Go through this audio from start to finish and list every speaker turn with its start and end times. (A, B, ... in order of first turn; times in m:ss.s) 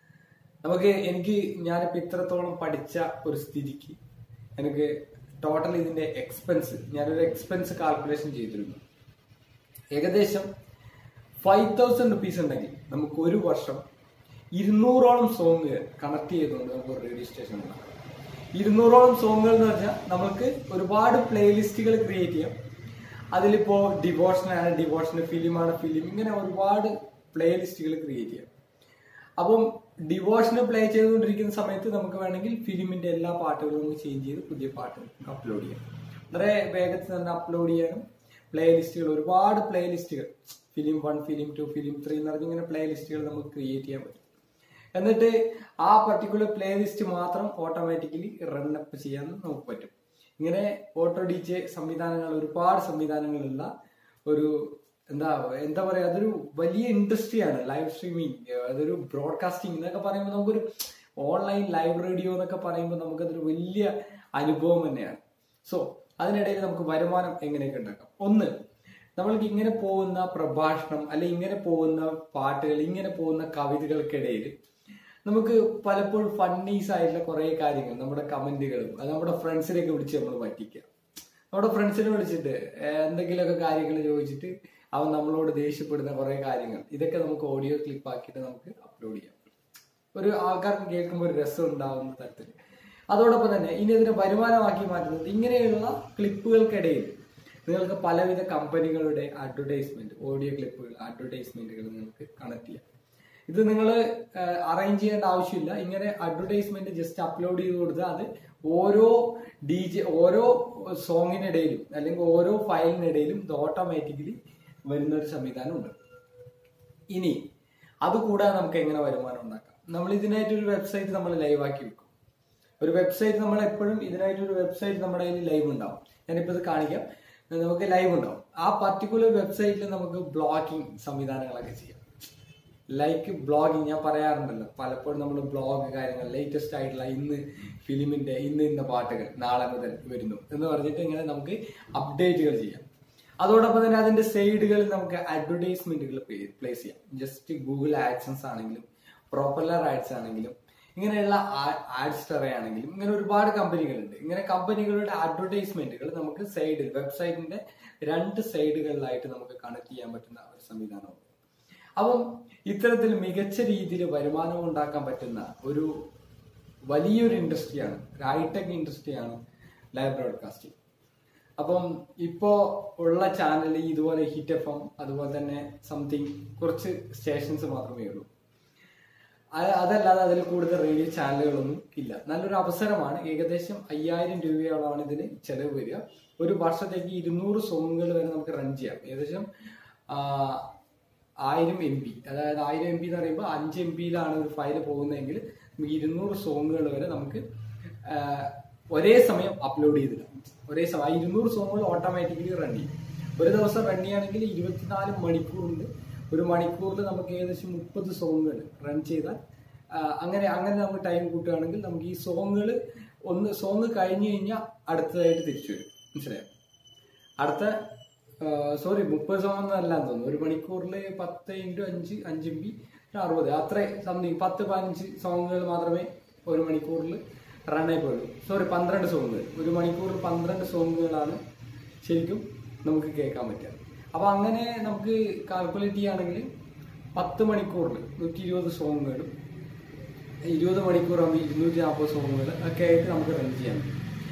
0:00.6-0:04.0 A
0:04.6-0:08.8 A
0:09.9-0:10.5 A
0:11.4-0:13.8 A
0:14.5-0:17.9 A
0:18.6-0:22.6 A
0:23.3-0:28.5 A
0:29.4-0:44.2 A
0:45.0-0:53.7 A
0:54.3-1:00.7 A
1:01.2-1:08.5 A
1:09.2-1:14.6 A
1:15.2-1:20.9 A
1:21.5-1:29.4 A
1:30.2-1:32.5 A
1:33.1-1:37.2 A
1:37.7-1:42.8 A
1:43.5-1:56.0 A
1:57.1-1:57.4 A
1:58.0-2:02.1 A
2:02.8-2:12.0 A
2:12.9-2:22.9 A
2:23.4-2:41.3 A
2:42.0-2:45.9 A
2:46.9-2:49.4 A
2:50.0-2:50.8 A
2:51.6-2:58.3 A
2:59.6-3:09.5 A
3:10.1-3:10.7 A
3:11.4-3:17.4 A
3:18.0-3:29.4 A
3:30.0-3:32.8 A
3:33.3-3:36.5 A
3:37.4-3:37.8 A
3:38.4-3:51.4 A
3:52.0-3:56.5 A
3:57.2-3:59.3 A
4:00.5-4:04.0 A